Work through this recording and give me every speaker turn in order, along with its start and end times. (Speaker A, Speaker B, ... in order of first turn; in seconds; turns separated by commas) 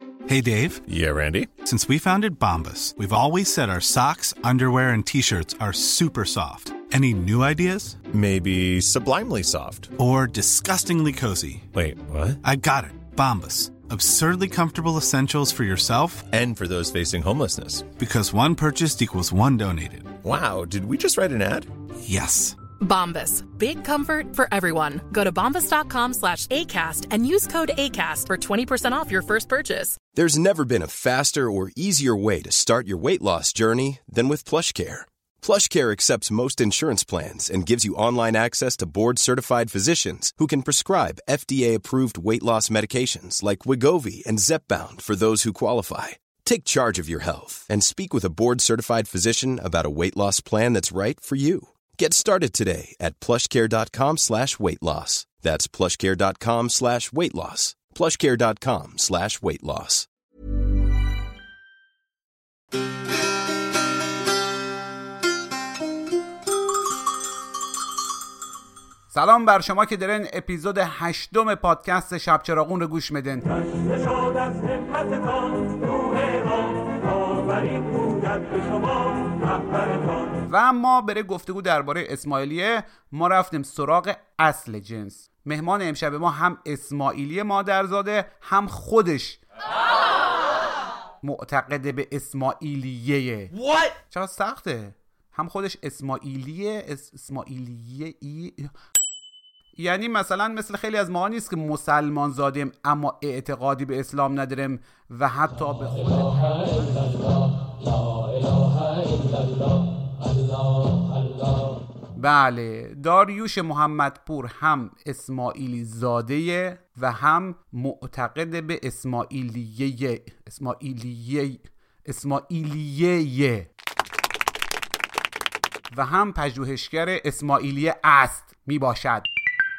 Speaker A: 0.3-0.8, Speaker B: 0.9-1.5, Speaker A: 1.6-8.0, Speaker B: 8.1-9.9, Speaker A: 10.0-11.7, Speaker B: 11.7-12.4, Speaker A: 12.4-16.3, Speaker B: 16.3-17.8, Speaker A: 18.0-20.1, Speaker B: 20.2-21.7, Speaker A: 22.0-22.6, Speaker C: 22.8-30.0, Speaker D: 30.1-60.1, Speaker E: 69.1-73.7, Speaker E: 80.4-89.4, Speaker E: 91.2-93.5, Speaker E: 94.1-98.7, Speaker E: 99.8-107.0, Speaker E: 112.2-123.7, Speaker E: 125.9-129.3